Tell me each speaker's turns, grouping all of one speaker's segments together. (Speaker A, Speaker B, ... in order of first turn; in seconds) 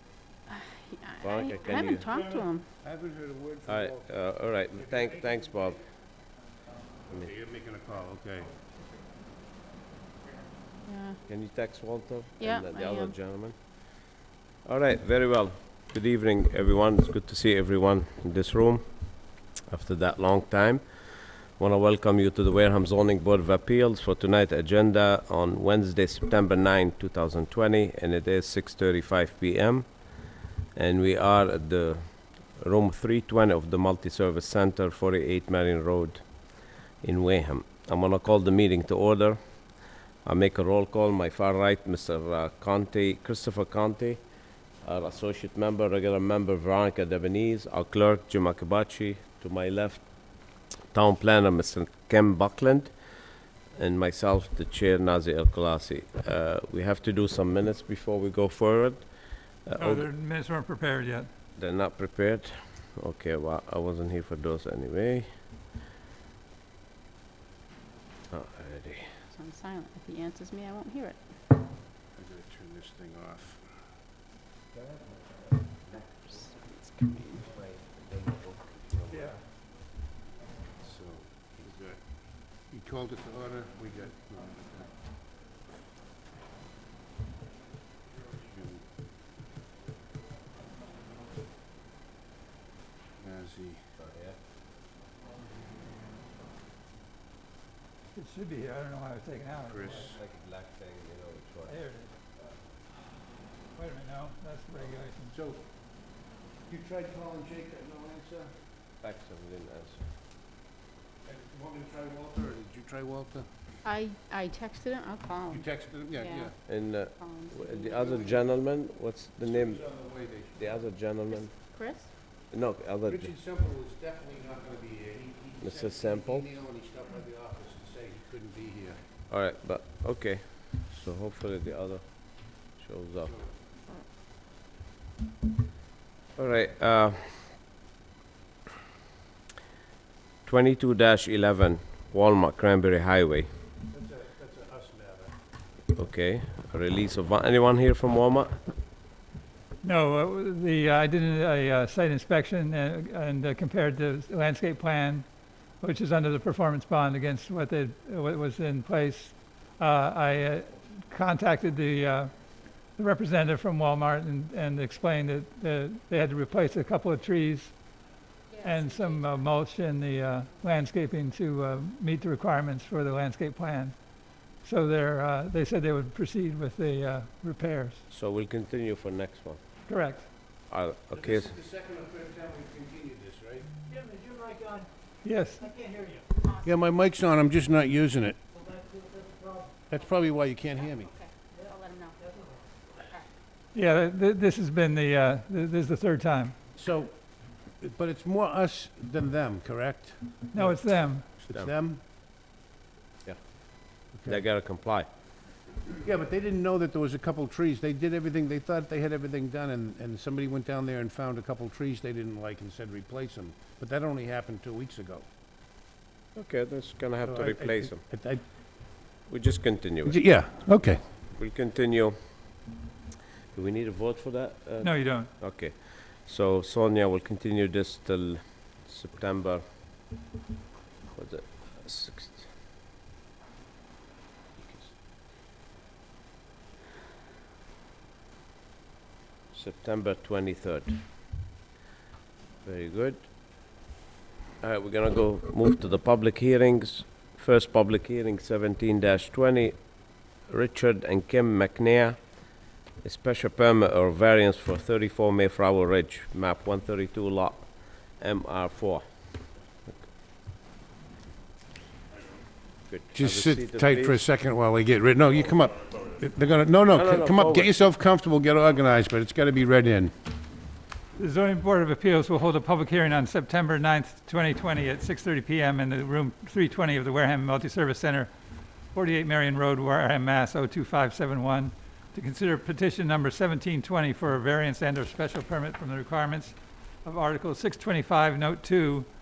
Speaker A: 0.5-2.7, 10.8-11.2, 12.4-13.2, 69.3-71.4, 76.4-77.3, 113.8-118.2, 121.3-122.2, 168.5-169.6, 186.3-186.8, 190.0-192.3
Speaker B: 1.2-2.1, 3.7-5.8, 7.1-7.3, 11.3-13.9, 14.6-53.1, 53.7-60.1, 61.6-65.3, 68.3-69.2, 74.7-79.3, 94.0-94.4, 100.0-101.8, 109.0-110.1, 116.7-121.8, 122.5-123.3, 125.6-126.5, 129.3-133.3, 136.4-137.6, 140.4-143.5, 145.9-148.6, 178.1-179.6, 180.7-181.6, 203.2-205.1, 216.3-218.0, 219.3-220.2, 221.3-222.7, 223.5-229.6, 231.1-232.5, 239.5-241.1, 242.6-243.3, 244.6-259.5, 262.9-264.2, 266.9-267.9
Speaker C: 2.8-4.1, 7.1-8.6, 72.1-73.7, 80.8-85.0, 88.4-88.8, 93.2-93.9, 99.7-100.2, 105.3-106.0, 106.7-108.6, 111.2-113.5, 115.5-116.6, 118.0-118.4, 119.4-120.7, 123.1-129.0, 143.9-145.3, 181.1-183.7, 186.6-188.4, 189.9-191.1, 196.8-202.0, 204.1-204.4, 206.0-215.3, 217.2-218.4, 220.1-221.1, 234.6-234.9, 263.1-270.1
Speaker D: 59.8-61.3, 79.1-79.4, 98.1-100.1, 101.7-102.1, 103.7-105.3, 149.8-155.3, 155.8-162.3, 162.9-167.8, 168.6-174.0, 174.6-178.0, 179.9-180.3, 185.2-185.8, 193.7-196.6, 200.5-201.3, 224.8-225.3, 271.2-278.3, 278.9-289.1